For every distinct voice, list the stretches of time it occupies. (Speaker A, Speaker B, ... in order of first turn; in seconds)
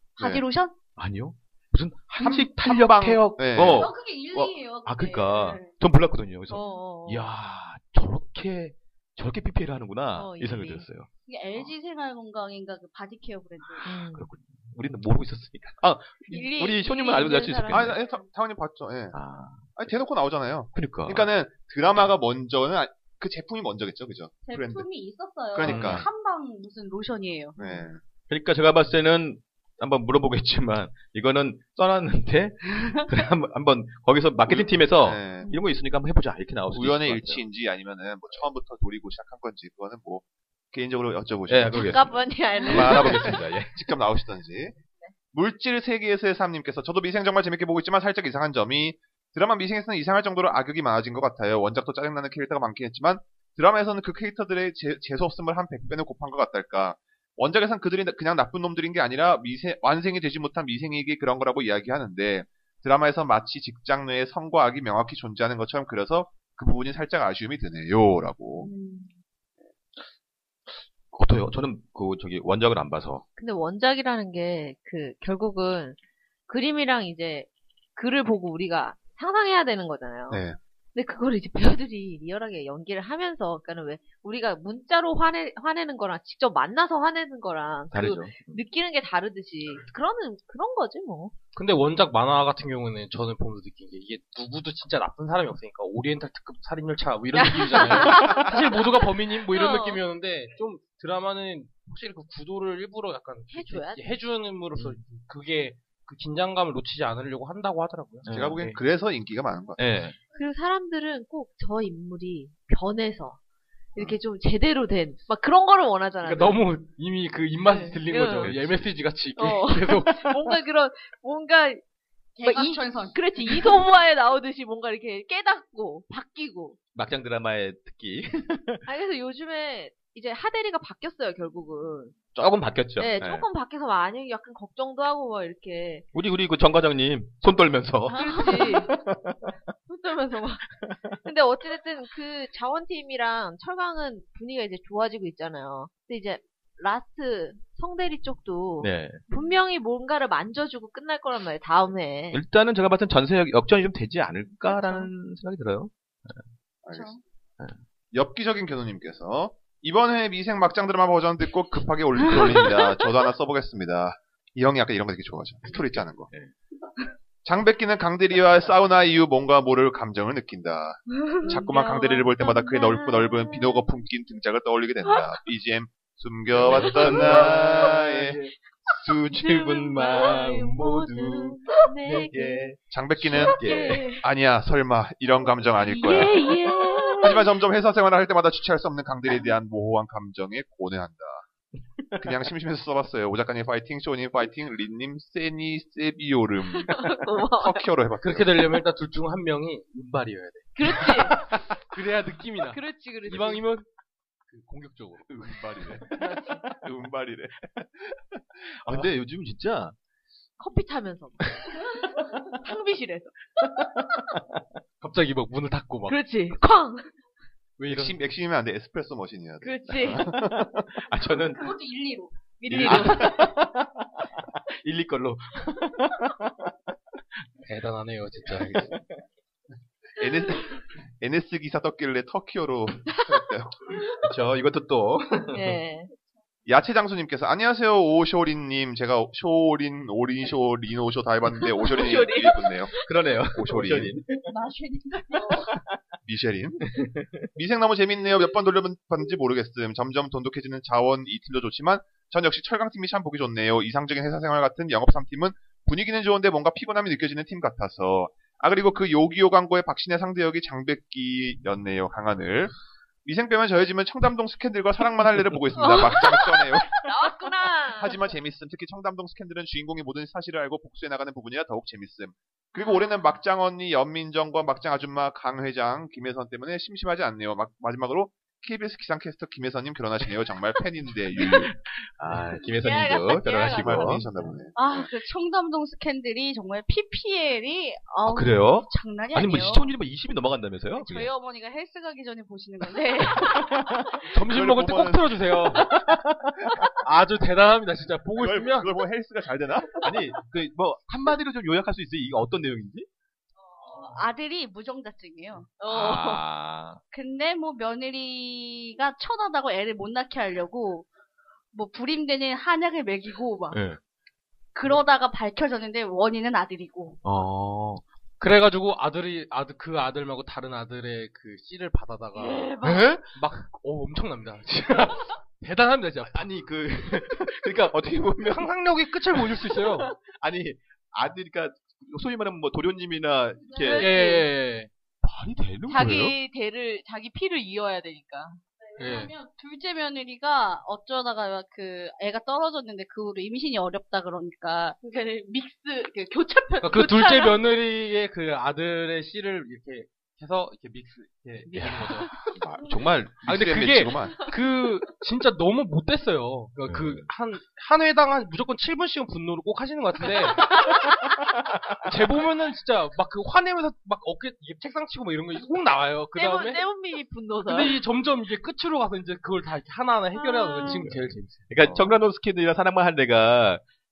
Speaker A: 0.2-0.8, 3.6-5.8, 6.5-6.9, 11.3-13.9, 16.3-18.1, 24.4-27.7, 32.8-33.0, 122.4-123.8, 138.2-138.9, 149.3-149.5, 156.9-157.2, 162.2-162.8, 171.4-171.7, 221.5-223.5, 244.4-245.8, 284.8-290.0, 290.9-293.9, 303.8-305.8, 307.1-311.1, 311.7-313.8, 314.8-317.2, 339.0-345.0
Speaker B: 0.9-11.7, 14.1-18.0, 19.1-19.8, 20.7-21.3, 25.6-26.1, 28.3-37.4, 41.5-42.1, 42.7-43.8, 70.7-73.2, 87.9-88.6, 108.2-108.8, 109.8-110.2, 118.4-118.9, 126.9-128.8, 132.3-133.5, 136.1-139.6, 148.8-149.2, 152.3-156.4, 165.7-166.5, 176.5-184.1, 205.3-209.9, 213.8-214.6, 220.1-221.8, 222.7-226.7, 228.5-229.2, 234.2-235.8, 241.8-244.5, 246.9-247.3, 281.4-284.4, 288.3-291.3, 293.4-294.0, 300.0-303.1, 305.9-307.0, 313.7-314.0, 317.2-318.0, 322.8-323.4, 324.8-325.1, 326.2-328.7, 329.4-334.1, 335.2-336.4, 351.7-353.5, 356.9-357.3, 360.7-361.1, 361.7-362.1, 370.8-373.8
Speaker C: 2.2-3.9, 17.7-19.2, 19.8-24.9, 25.5-26.1, 27.6-28.0, 34.5-35.5, 36.7-44.8, 45.3-68.7, 80.3-80.6, 108.3-109.8, 156.8-157.1, 158.1-166.3, 167.4-178.4, 182.9-186.5, 187.2-191.4, 192.2-198.8, 206.9-207.5, 208.9-209.1, 217.9-220.9, 230.2-234.1, 236.7-242.9, 243.5-244.2, 246.2-246.9, 247.5-262.7, 263.2-267.1, 267.9-281.8, 283.6-285.1, 294.4-295.4, 298.4-300.1, 353.4-354.4
Speaker D: 6.5-7.2, 10.2-10.9, 13.8-14.3, 16.6-17.7, 41.7-43.4, 68.6-69.0, 73.4-76.0, 76.5-91.3, 97.4-98.5, 99.5-100.0, 103.5-104.2, 110.3-113.4, 114.0-116.7, 117.6-118.5, 119.4-121.8, 122.4-126.8, 128.9-132.2, 133.0-136.1, 138.1-138.9, 139.9-140.7, 141.2-152.4, 171.3-173.8, 179.3-182.7, 183.4-184.2, 185.9-187.4, 196.9-197.8, 200.8-201.5, 202.7-203.6, 206.2-206.6, 210.6-213.7, 216.1-217.1, 219.6-220.3, 222.6-223.4, 235.5-236.1, 241.8-243.0, 265.8-266.4, 267.0-268.2, 282.8-284.2, 305.8-306.4, 322.4-323.0, 333.7-334.5, 335.9-338.6, 345.0-347.6, 366.3-368.0, 370.3-371.1
Speaker E: 91.5-108.7, 116.2-120.4, 198.2-203.9, 204.5-205.9, 215.0-216.2, 217.8-218.2, 227.7-228.9, 294.3-296.0, 297.0-298.9, 318.4-326.5, 328.4-330.1, 333.9-334.9, 339.0-339.3, 346.8-352.5, 353.5-360.9, 362.0-366.8, 367.7-371.7